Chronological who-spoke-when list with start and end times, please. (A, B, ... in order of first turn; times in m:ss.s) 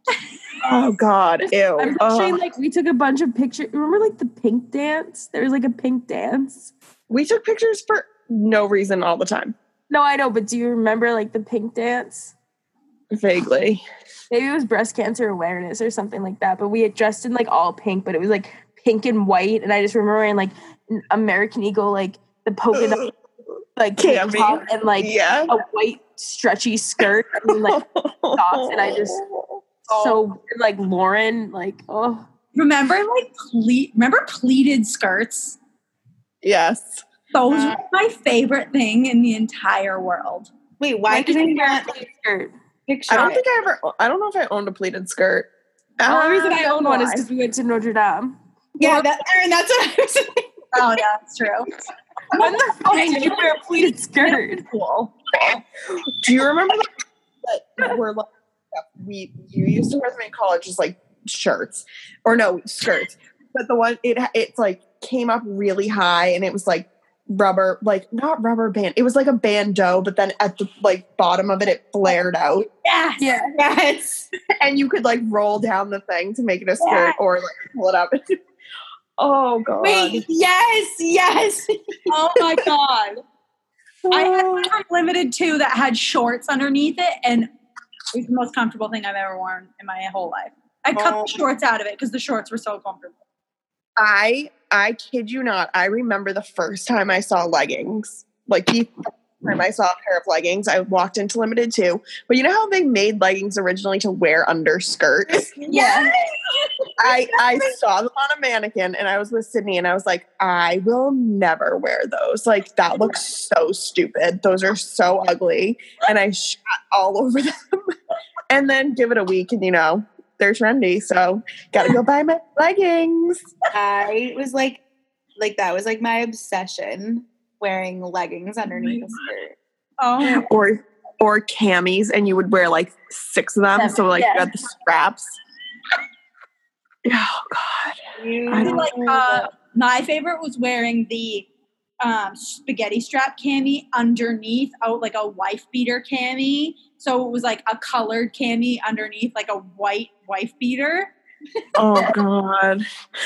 0:00.6-0:02.4 A
0:01.4-0:06.7 B
0:07.1-0:09.5 A
0:09.9-0:12.3 B
0:13.1-0:13.8 A
0:14.3-0:23.1 B
0:22.7-0:23.1 A
0:23.8-0:27.8 B
0:24.0-0:25.5 A
0:27.4-0:29.6 A
0:28.3-0:29.2 B
0:29.9-0:32.3 B
0:32.5-0:35.6 C
0:36.4-0:37.0 A
0:37.3-0:40.5 C
0:37.5-0:37.8 D
0:40.8-0:42.0 D
0:41.1-0:42.5 B
0:42.8-0:43.4 D
0:43.1-0:47.2 A
0:46.1-0:48.4 B
0:48.8-0:50.6 D
0:48.8-0:49.1 C
0:50.7-0:51.7 C
0:52.3-0:53.7 C
0:52.4-0:54.7 B
0:54.2-0:55.1 C
0:56.2-0:56.9 A
0:57.4-1:12.7 A
1:12.8-1:13.3 C
1:13.2-1:13.5 B
1:13.5-1:14.3 D
1:14.6-1:18.2 A
1:16.8-1:17.2 C
1:19.2-1:20.2 A
1:19.8-1:21.7 D
1:22.1-1:23.2 C
1:24.0-1:24.7 A
1:24.1-1:27.5 C
1:28.1-1:33.2 C
1:30.9-1:31.3 D
1:34.0-1:45.5 A
1:45.3-1:46.1 D
1:45.7-1:46.1 C
1:45.7-1:46.1 B
1:47.0-1:57.8 A
1:58.5-2:03.4 A
2:03.7-2:04.8 D
2:05.4-2:09.6 D
2:10.0-2:10.5 C
2:10.2-2:15.3 A
2:13.7-2:14.5 B
2:17.0-2:18.0 A
2:18.2-2:19.5 D
2:18.5-2:18.9 A
2:18.6-2:21.5 C
2:22.0-2:31.1 C
2:31.8-2:32.8 A